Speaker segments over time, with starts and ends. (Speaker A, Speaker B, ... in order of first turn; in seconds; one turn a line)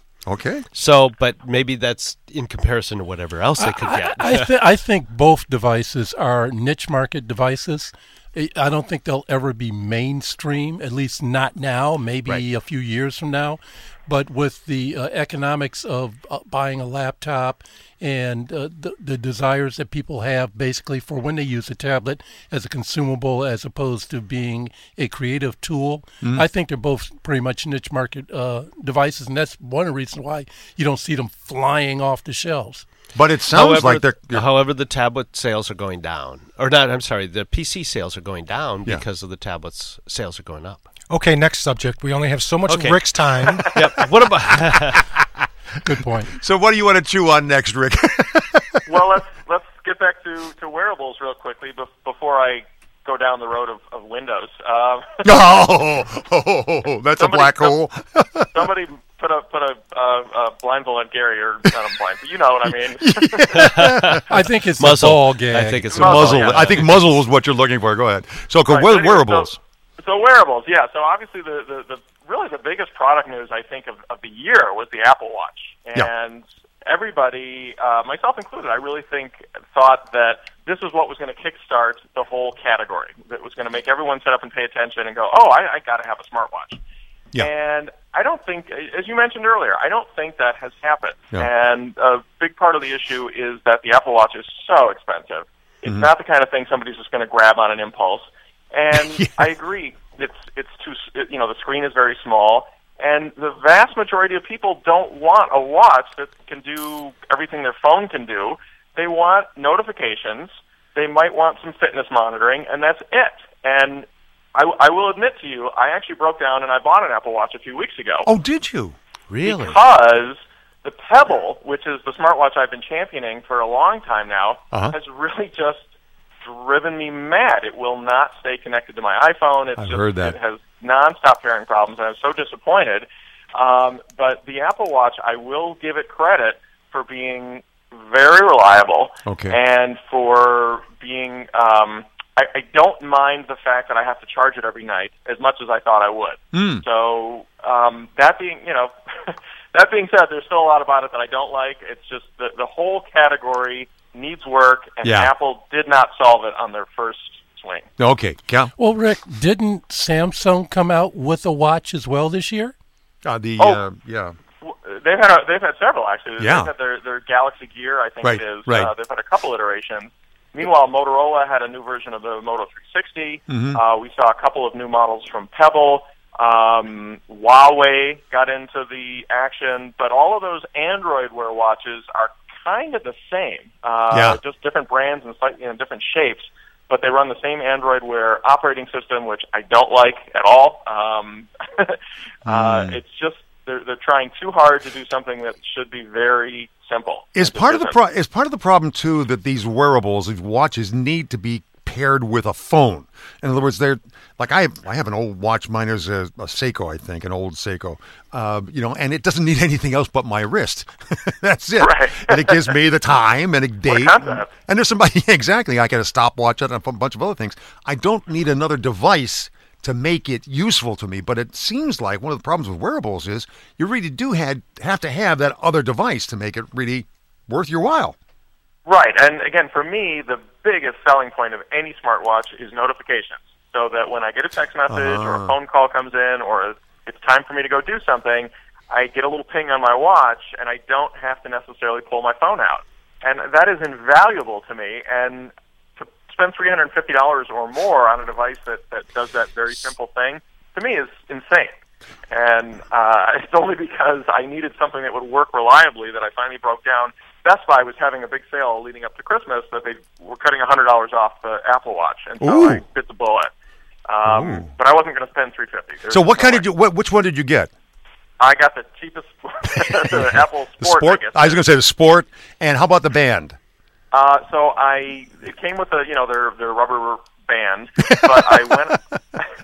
Speaker A: 0.2-0.6
Speaker B: 0.7-4.5
Speaker C: 3.6-32.9
Speaker A: 33.1-34.4
Speaker B: 33.5-40.9
Speaker D: 41.1-43.8
Speaker B: 42.7-43.0
Speaker B: 43.7-45.1
Speaker C: 45.8-46.3
Speaker A: 46.4-48.8
Speaker E: 48.9-55.2
Speaker A: 55.2-58.5
Speaker E: 57.1-57.8
Speaker E: 58.5-63.7
Speaker A: 63.0-64.2
Speaker B: 63.6-67.0
Speaker C: 64.3-66.2
Speaker A: 66.0-69.6
Speaker E: 66.0-66.7
Speaker E: 68.7-86.8
Speaker E: 87.4-118.3
Speaker A: 118.2-119.0
Speaker B: 119.3-119.8
Speaker E: 119.4-125.9
Speaker E: 126.4-157.9
Speaker A: 129.8-130.3
Speaker A: 139.2-139.5
Speaker A: 146.5-146.8
Speaker A: 155.0-155.3
Speaker A: 158.0-158.7
Speaker C: 158.8-162.7
Speaker A: 163.2-164.3
Speaker E: 164.6-197.9
Speaker A: 166.4-166.7
Speaker A: 168.2-168.9
Speaker A: 173.5-173.8
Speaker A: 184.1-184.4
Speaker A: 192.4-193.0
Speaker A: 197.3-228.1
Speaker E: 211.8-212.7
Speaker E: 213.8-214.5
Speaker E: 228.9-251.7
Speaker A: 234.9-235.5
Speaker E: 252.3-263.5
Speaker A: 262.4-262.8
Speaker E: 264.1-266.7
Speaker A: 264.2-264.7
Speaker A: 266.1-267.7
Speaker E: 268.4-271.6
Speaker A: 270.8-273.6
Speaker E: 274.1-279.5